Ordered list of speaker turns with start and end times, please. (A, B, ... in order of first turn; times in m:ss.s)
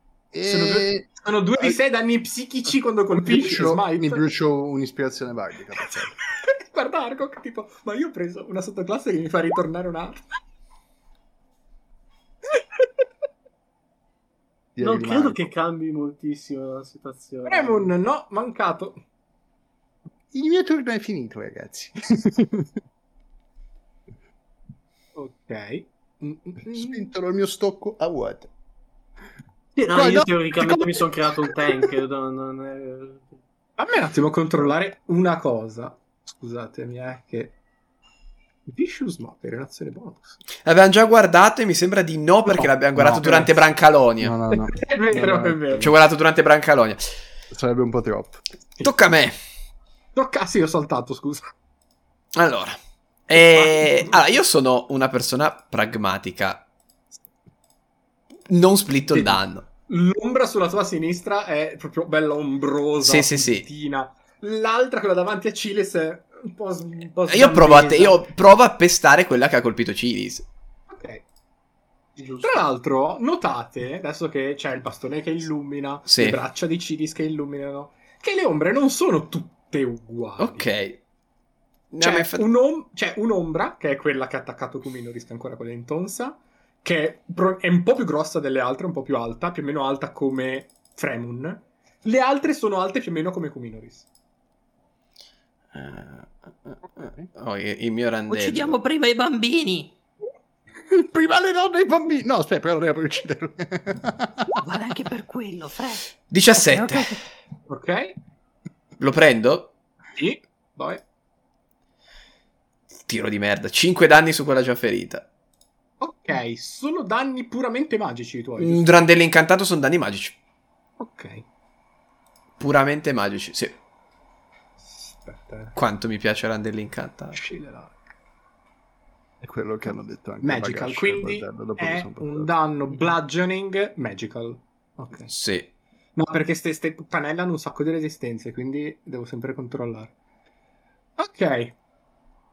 0:00.3-0:01.8 A
0:00.4-0:04.2 B
0:03.2-0:06.2 A
0:06.4-0:10.2 B
0:12.5-0:12.8 B
0:14.8-0:15.5 A
0:14.8-0:17.9 C
0:17.5-0:19.0 B
0:20.3-0:22.7 A
0:25.2-0:27.0 B
0:26.7-0:28.5 A
0:29.8-0:33.4 C
0:29.9-0:31.9 A
0:33.8-0:37.6 B
0:38.7-0:40.4 B
0:40.6-0:44.4 D
0:42.5-0:43.6 A
0:44.2-0:45.9 A
0:44.5-0:45.9 B
0:45.8-0:47.0 D
0:47.5-0:48.4 A
0:48.8-0:49.4 D
0:50.2-0:51.5 B
0:52.4-0:56.7 D
0:53.3-0:54.2 B
0:58.5-0:59.6 D
0:59.1-1:08.2 B
1:03.0-1:03.7 D
1:07.3-1:10.5 D
1:10.9-1:11.2 B
1:12.2-1:12.6 C
1:12.4-1:20.7 B
1:16.1-1:16.4 D
1:20.4-1:21.0 D
1:21.9-1:22.5 D
1:22.0-1:34.1 B
1:35.7-1:38.8 D
1:37.0-1:37.3 A
1:38.3-1:40.0 E
1:40.9-1:44.5 A
1:44.6-1:47.2 E
1:46.3-1:47.2 D
1:47.7-1:48.2 B
1:49.0-1:49.7 D
1:50.2-1:51.0 B
1:53.1-1:55.3 D
1:56.0-1:59.0 B
1:58.6-2:00.4 D
2:01.0-2:01.4 B
2:02.6-2:03.8 D
2:04.8-2:05.8 B
2:05.8-2:07.4 D
2:07.3-2:08.0 B
2:09.4-2:12.5 A
2:10.4-2:15.3 B
2:15.3-2:15.7 D
2:16.2-2:20.1 B
2:21.2-2:21.8 B